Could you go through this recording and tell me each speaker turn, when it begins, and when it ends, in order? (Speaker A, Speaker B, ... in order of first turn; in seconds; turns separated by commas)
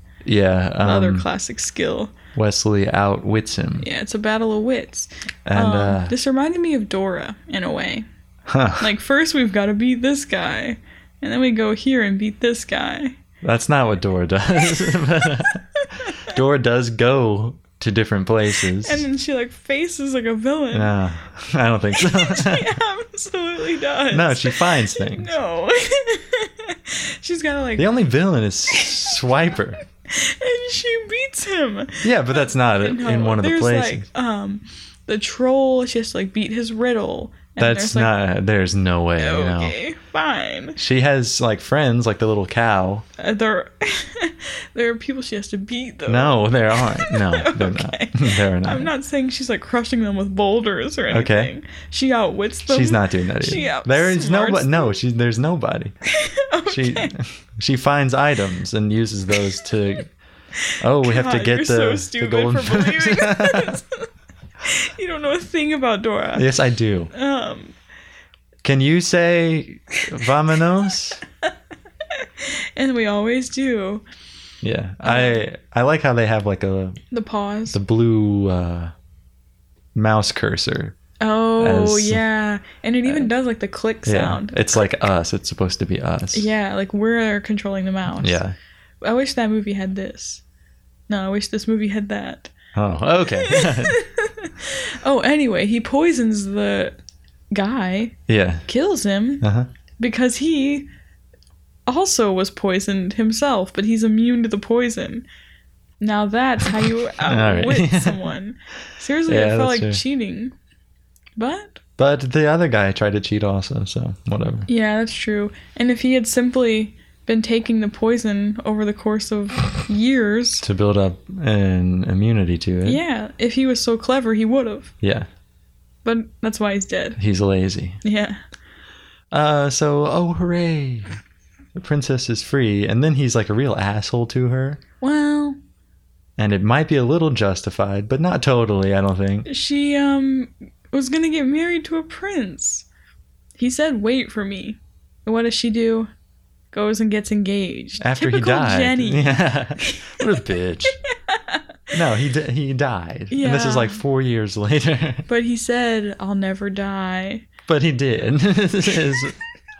Speaker A: 0.2-1.2, Speaker B: 0.8-2.1, Speaker A: 2.3-3.9, Speaker B: 3.8-8.0, Speaker A: 5.5-6.1, Speaker A: 8.5-8.9, Speaker B: 8.8-13.2, Speaker A: 13.4-15.6, Speaker B: 15.8-16.2, Speaker A: 16.2-19.0, Speaker B: 18.8-20.9, Speaker A: 20.7-22.8, Speaker B: 22.0-27.9, Speaker A: 24.1-25.3, Speaker A: 27.8-29.8, Speaker B: 28.7-29.1, Speaker B: 30.1-38.1, Speaker A: 32.0-34.0, Speaker A: 37.6-39.8, Speaker B: 39.2-40.8, Speaker A: 40.8-43.0, Speaker B: 43.2-55.0, Speaker A: 46.1-48.9, Speaker A: 51.1-51.5, Speaker A: 52.7-55.9, Speaker B: 56.2-57.1, Speaker A: 56.7-60.1, Speaker A: 60.8-63.8, Speaker B: 61.0-64.1, Speaker B: 64.6-66.4, Speaker A: 66.3-67.1, Speaker B: 67.1-67.7, Speaker A: 68.6-71.2, Speaker B: 72.2-74.0, Speaker A: 74.6-77.0, Speaker B: 75.0-75.4, Speaker B: 77.1-77.8, Speaker A: 77.7-78.9, Speaker A: 79.9-81.0, Speaker B: 81.2-84.7, Speaker A: 81.6-82.2, Speaker A: 83.0-83.3, Speaker A: 84.0-86.5, Speaker B: 86.3-88.4, Speaker A: 88.2-88.5, Speaker B: 89.0-90.4, Speaker B: 91.1-92.5, Speaker A: 92.7-94.0, Speaker B: 93.4-97.0, Speaker B: 97.5-99.4, Speaker A: 98.3-98.6, Speaker A: 99.4-99.7, Speaker B: 100.0-100.9, Speaker B: 101.9-105.2, Speaker B: 106.0-110.5, Speaker A: 107.2-108.2, Speaker A: 109.3-110.0, Speaker B: 111.3-111.8, Speaker A: 112.0-114.7, Speaker B: 114.7-120.6, Speaker A: 120.6-123.0, Speaker B: 122.8-124.9, Speaker A: 125.0-125.3, Speaker B: 126.0-127.2, Speaker A: 127.2-128.0, Speaker B: 128.0-128.4, Speaker A: 129.3-131.1, Speaker A: 131.7-134.8, Speaker B: 135.0-135.6, Speaker A: 136.4-139.5, Speaker B: 139.4-142.9, Speaker B: 143.6-146.1, Speaker B: 146.7-150.2, Speaker A: 148.0-151.0, Speaker B: 151.1-151.6, Speaker A: 151.9-155.2, Speaker B: 153.3-154.0, Speaker B: 155.3-157.5, Speaker A: 157.7-159.3